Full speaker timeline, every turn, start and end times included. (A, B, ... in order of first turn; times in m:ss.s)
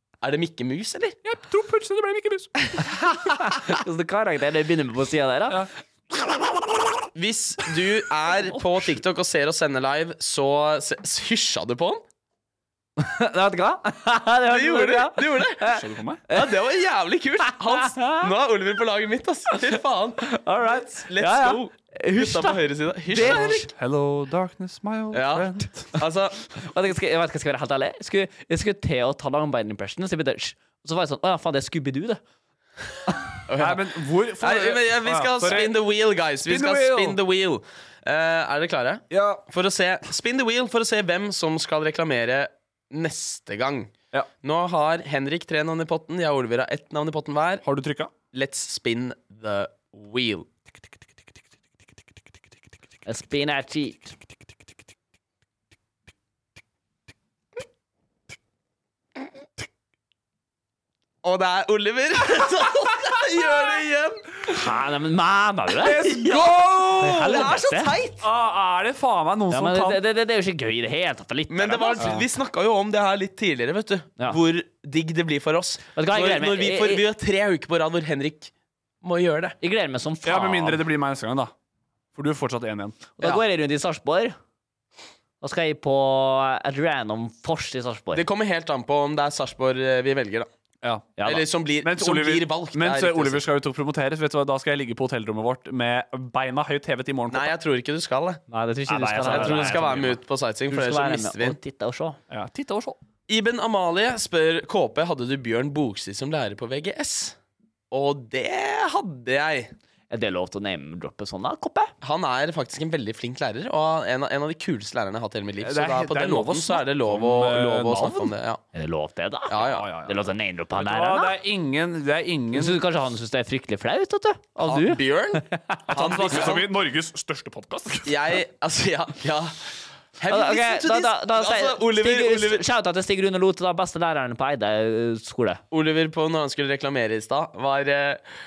0:00.2-0:01.2 A
0:01.2-0:02.8 B
0:03.4-0:05.6 C
0:07.2-0:12.0 A
0:13.0-0:16.6 C
0:14.5-0:15.7 A
0:15.6-0:16.2 B
0:16.3-0:23.7 A
0:17.8-0:18.3 C
0:20.2-0:23.7 C
0:23.1-0:26.0 B
0:25.1-0:26.4 A
0:26.6-0:32.2 C
0:33.5-0:33.8 A
0:33.6-0:35.8 B
0:34.4-0:47.6 A
0:36.5-0:37.2 B
0:39.1-0:39.4 B
0:47.6-0:48.1 B
0:48.3-0:50.5 A
0:53.1-0:54.1 C
1:01.2-1:04.6 A
1:04.5-1:06.1 C
1:05.8-1:07.5 B
1:06.0-1:08.2 A
1:07.0-1:07.9 C
1:08.2-1:10.0 B
1:09.5-1:12.2 C
1:11.5-1:18.5 A
1:15.9-1:17.0 C
1:19.0-1:19.6 A
1:19.6-1:20.8 C
1:20.2-1:21.5 B
1:22.2-1:23.0 B
1:23.2-1:24.4 C
1:25.4-1:28.2 C
1:28.1-1:30.5 A
1:30.8-1:31.1 B
1:31.2-1:31.4 C
1:31.2-1:33.4 A
1:31.8-1:37.5 B
1:37.3-1:38.4 A
1:38.5-1:42.2 C
1:38.9-1:40.0 B
1:39.2-1:41.6 A
1:42.3-1:43.0 B
1:43.3-1:47.4 A
1:47.9-1:49.7 A
1:50.1-1:51.9 C
1:52.0-1:58.6 A
1:55.6-1:58.3 B
1:58.7-2:01.3 C
1:59.5-1:59.8 A
1:59.6-2:02.8 B
2:02.5-2:06.2 C
2:04.6-2:06.7 A
2:05.9-2:08.4 B
2:08.1-2:09.5 A
2:10.2-2:12.6 A
2:10.3-2:15.6 C
2:15.7-2:18.2 A